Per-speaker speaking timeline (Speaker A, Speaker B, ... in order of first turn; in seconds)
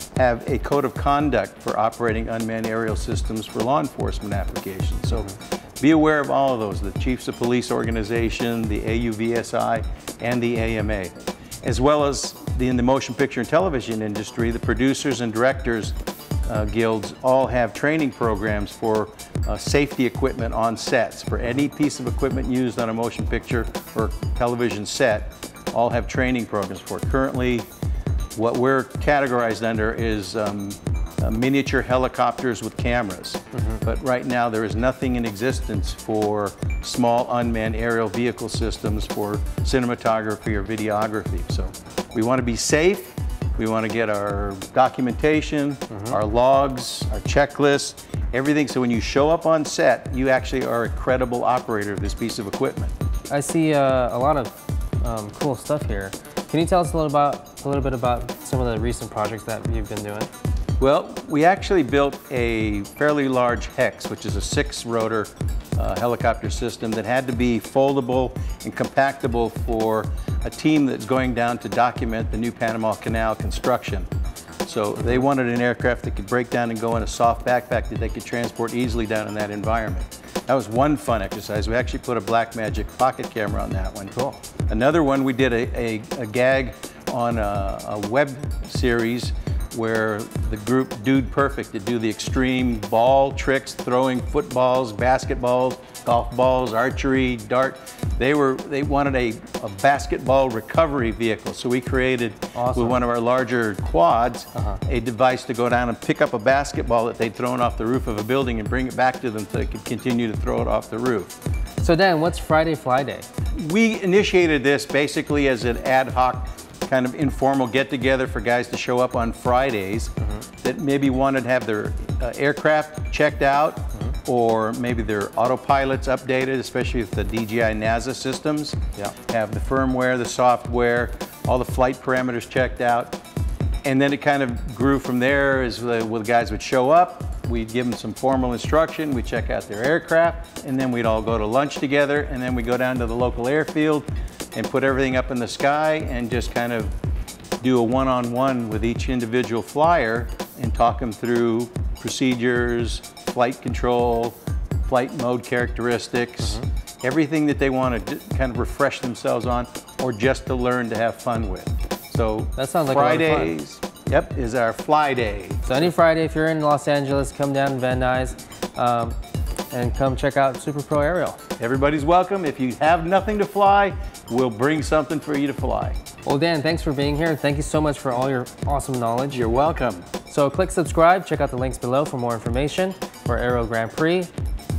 Speaker A: 0.2-15.9, 16.4-27.7, 28.4-52.9, 60.8-74.1, 74.6-111.4, 113.5-133.2, 133.8-146.9, 147.6-165.9, 171.6-176.0, 179.3-180.1
Speaker B: 53.3-54.5, 55.0-60.3, 102.5-103.0, 111.8-113.3, 162.6-163.6, 165.7-169.2, 169.7-171.4, 176.2-179.4, 180.3-184.3